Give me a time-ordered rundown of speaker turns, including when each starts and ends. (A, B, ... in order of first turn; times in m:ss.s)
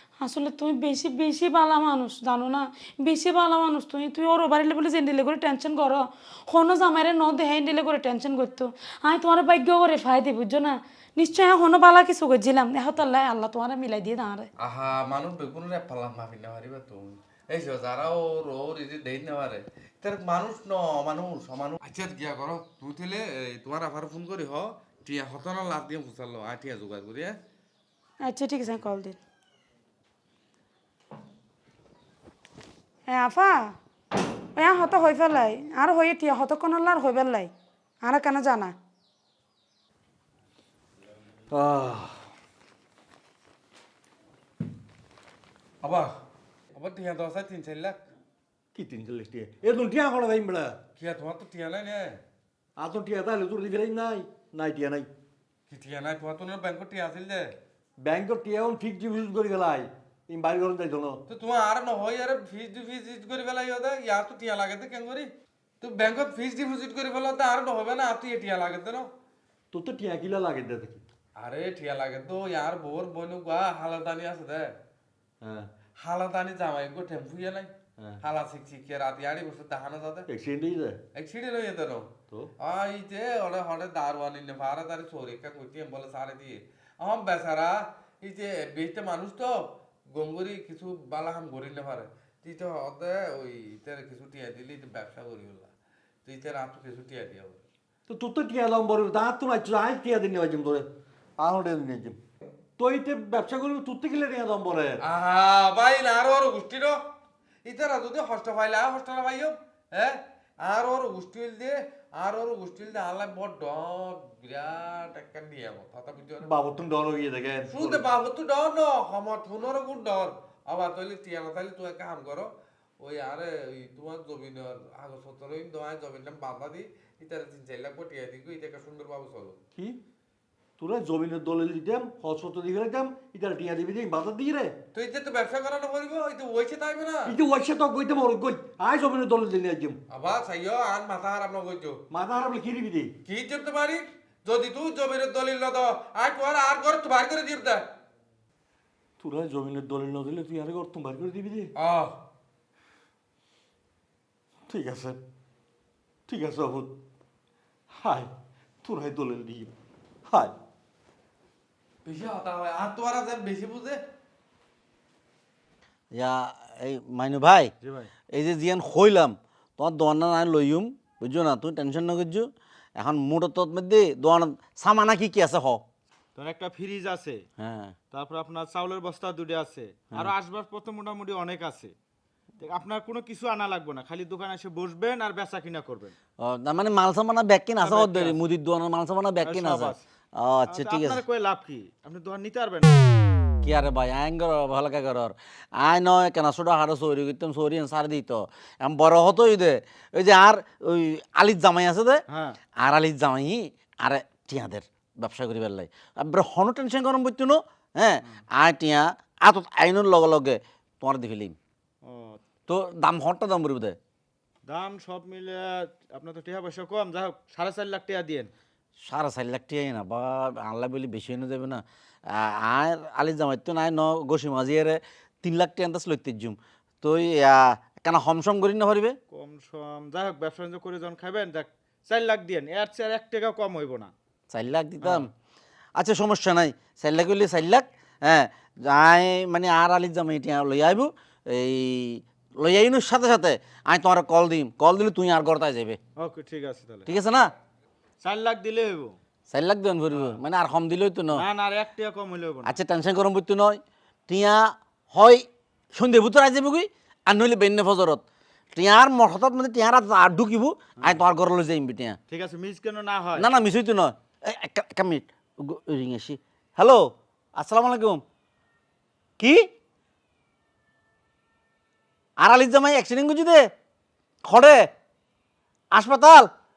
0:00.2-0:14.5 A
0:14.6-0:27.4 B
0:28.2-0:29.2 A
0:33.1-0:33.8 A
0:34.6-0:37.5 A
0:38.0-0:38.7 A
0:41.5-0:42.2 C
0:45.8-0:46.1 B
0:46.7-0:48.0 B
0:48.7-0:50.8 C
0:51.0-0:52.2 B
0:52.8-0:55.1 C
0:55.7-0:57.5 B
0:58.0-1:01.2 C
1:01.3-1:09.1 B
1:09.7-1:11.0 C
1:11.4-1:14.7 B
1:15.4-1:15.7 C
1:16.0-1:20.3 B
1:20.3-1:21.0 C
1:21.1-1:35.7 B
1:36.2-1:37.6 B
1:38.1-1:40.9 C
1:41.4-1:42.2 C
1:42.8-1:45.0 C
1:45.0-1:47.0 B
1:47.6-1:56.5 B
1:56.4-1:58.0 C
1:57.7-2:09.6 B
2:10.8-2:14.8 C
2:14.9-2:17.4 B
2:17.2-2:20.0 C
2:20.1-2:22.0 B
2:22.1-2:23.1 C
2:23.2-2:27.8 B
2:29.2-2:31.7 C
2:31.8-2:32.2 B
2:34.7-2:35.2 C
2:36.3-2:36.9 C
2:37.9-2:38.3 C
2:38.8-2:39.7 C
2:40.3-2:40.5 C
2:42.0-2:44.0 B
2:46.1-2:47.7 D
2:47.8-2:48.1 E
2:48.3-2:55.8 D
2:56.4-2:57.4 E
2:57.6-2:58.0 D
2:58.1-3:01.9 E
3:02.6-3:06.1 E
3:06.4-3:11.2 D
3:07.8-3:08.4 E
3:09.4-3:10.0 E
3:10.7-3:13.0 E
3:13.6-3:22.2 D
3:22.3-3:22.6 E
3:22.8-3:31.6 D
3:32.0-3:32.4 E
3:32.7-3:34.0 D
3:34.7-3:38.5 E
3:39.0-3:49.2 D
3:49.3-3:54.1 E
3:54.5-3:55.3 D
3:55.0-3:55.3 E
3:56.0-4:06.0 D
4:06.2-4:07.1 E
4:07.0-4:07.5 D
4:08.2-4:09.2 E
4:09.5-4:11.4 D
4:10.1-4:10.4 E
4:11.3-4:12.8 E
4:12.6-4:22.2 D
4:22.3-4:23.5 E
4:23.4-4:28.2 D
4:29.4-4:29.7 D
4:32.4-4:33.7 D
4:34.4-4:34.9 D
4:35.9-4:36.5 D